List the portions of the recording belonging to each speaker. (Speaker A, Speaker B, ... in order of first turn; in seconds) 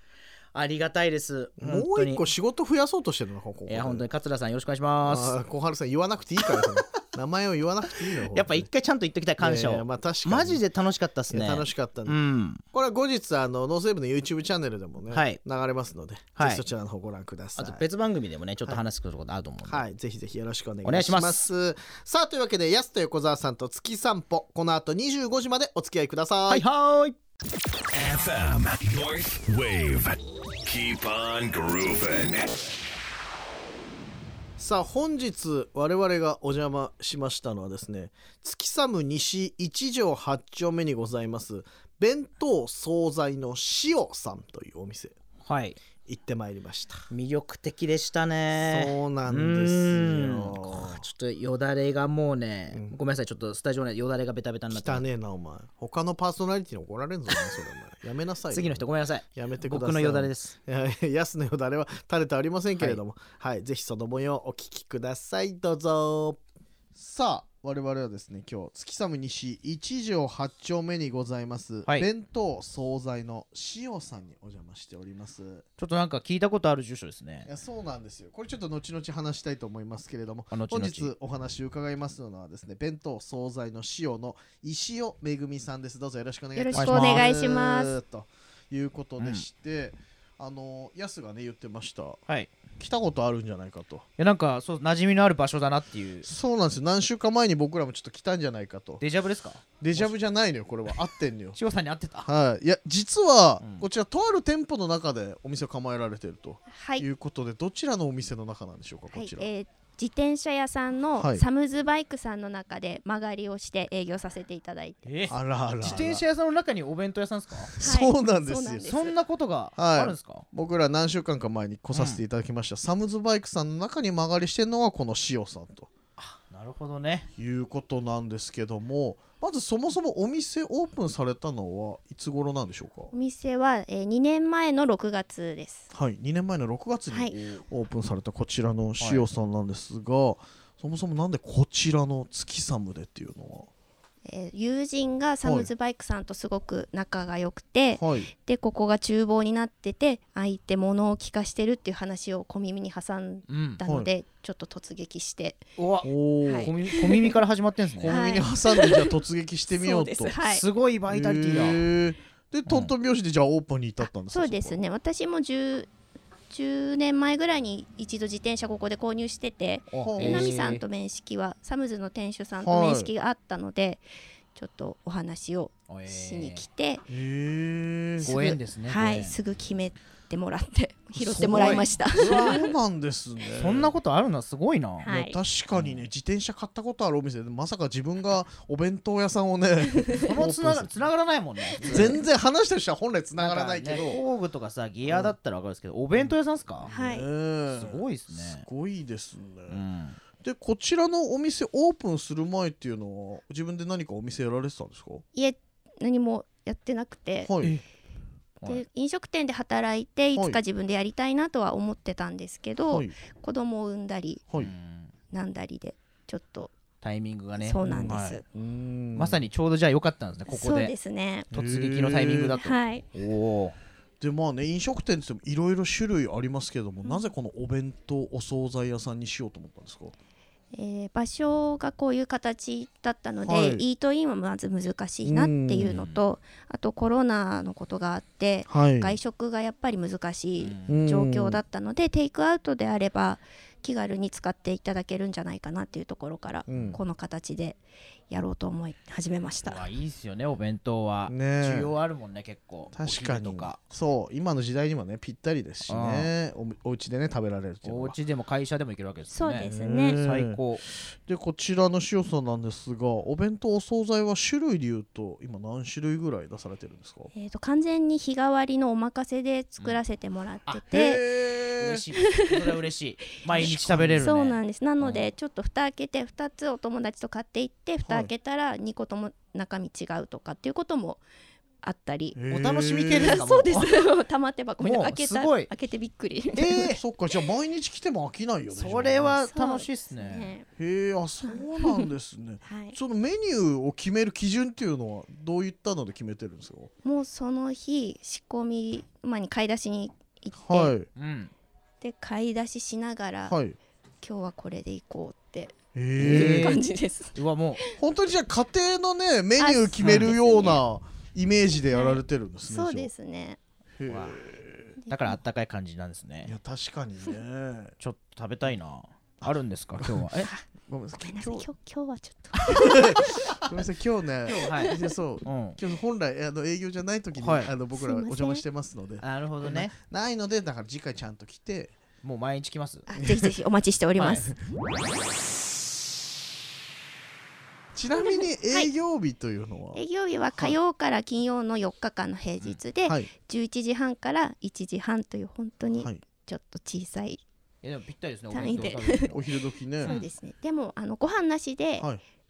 Speaker A: 0.5-2.2, 3.7-5.4, 6.6-7.0, 8.2-12.6, 15.1-15.4, 16.4-16.6, 17.6-19.8, 20.9-21.5, 26.5-27.2, 45.4-45.8, 47.1-55.0, 58.5-60.6, 62.8-63.0, 75.8-77.5, 80.5-81.1, 86.7-87.2, 89.2-89.4, 94.2-96.3, 99.0-100.1, 101.5-102.3, 103.6-103.9, 115.0-117.8, 118.8-120.5, 121.9-122.2, 126.2-127.3, 139.0-139.3, 153.5-153.8, 155.8-158.2, 160.4-161.8, 162.7-162.9, 169.9-170.8, 175.9-176.7, 178.2-179.4, 181.4-182.6, 183.6-185.1, 185.7-186.1, 190.2-192.2, 193.4-196.9, 197.7-198.7, 199.7-200.2, 214.6-215.1, 217.0-218.4, 219.2-220.9, 221.5-223.8, 235.8-236.2, 240.6-241.0, 246.7-247.0, 249.6-253.8, 255.9-256.3, 257.8-260.8, 271.8-275.3, 282.5-284.0, 284.8-285.7, 286.5-287.0, 288.7-290.5, 301.1-301.5, 306.2-307.8, 310.0-310.4, 314.1-314.4, 315.1-316.5, 318.0-320.5, 324.5-324.9, 325.4-325.8, 327.4-327.7, 329.2-329.9, 332.2-333.1, 334.2-334.4, 347.8-349.4, 350.0-350.3
Speaker B: 1.6-4.1, 5.1-8.7, 9.4-10.6, 11.3-12.2, 12.7-17.9, 19.6-26.6, 34.6-45.1, 46.1-47.1, 48.6-51.0, 52.7-53.0, 54.7-66.4, 66.9-75.7, 77.5-92.2, 92.8-94.0, 96.2-99.0, 99.8-101.6, 102.2-109.5, 111.2-111.4, 115.3-116.2, 117.7-118.9, 119.8-125.9, 127.4-133.1, 135.9-143.7, 145.4-145.7, 148.0-148.3, 153.8-154.1, 156.0-156.7, 158.0-160.3, 161.1-164.8, 170.0-170.5, 172.6-173.1, 177.1-178.3, 181.2-183.9, 185.1-190.9, 191.8-194.2, 195.1-195.3, 196.1-199.8, 200.4-205.2, 207.4-207.8, 210.3-210.6, 212.9-213.1, 217.8-219.4, 221.5-222.6, 224.2-230.1, 233.4-233.8, 235.2-236.0, 238.7-239.2, 240.9-241.6, 246.7-247.0, 251.3-251.9, 252.9-258.2, 259.7-267.3, 270.9-272.1, 273.5-274.2, 278.1-278.3, 282.4-283.4, 286.9-289.4, 290.8-296.9, 300.6-301.1, 303.5-303.8, 305.9-306.7, 308.0-313.1, 314.0-315.0, 316.4-317.9, 319.4-320.2, 320.9-321.7, 322.7-332.0, 333.2-333.5, 337.9-340.0, 345.9-346.2, 349.3-350.1
Speaker C: 27.9-32.5
Speaker D: 86.5-88.0, 106.7-107.0, 109.1-115.1, 117.8-119.2, 133.1-135.9, 137.1-137.4, 144.2-155.7, 156.4-157.3, 158.1-159.2, 159.7-160.7, 164.1-165.9, 166.5-177.0, 178.2-182.7, 185.0-185.4, 189.9-190.3, 191.8-192.1, 196.9-197.3, 205.3-207.5, 208.6-214.4, 215.3-216.7, 217.6-218.4, 220.5-221.5, 222.6-223.1, 227.0-227.3, 230.7-249.9, 259.3-260.2, 267.3-271.2, 272.2-272.8, 273.5-281.2, 281.8-282.4, 283.1-286.9, 289.5-290.7, 291.4-292.1, 292.6-293.0, 297.0-300.9, 302.0-303.5, 304.2-307.9, 309.6-310.8, 311.9-313.6, 315.0-315.4, 321.2-323.7, 327.9-328.6, 333.1-334.5, 338.1-338.9, 339.9-347.4, 348.5-349.4, 350.0-352.1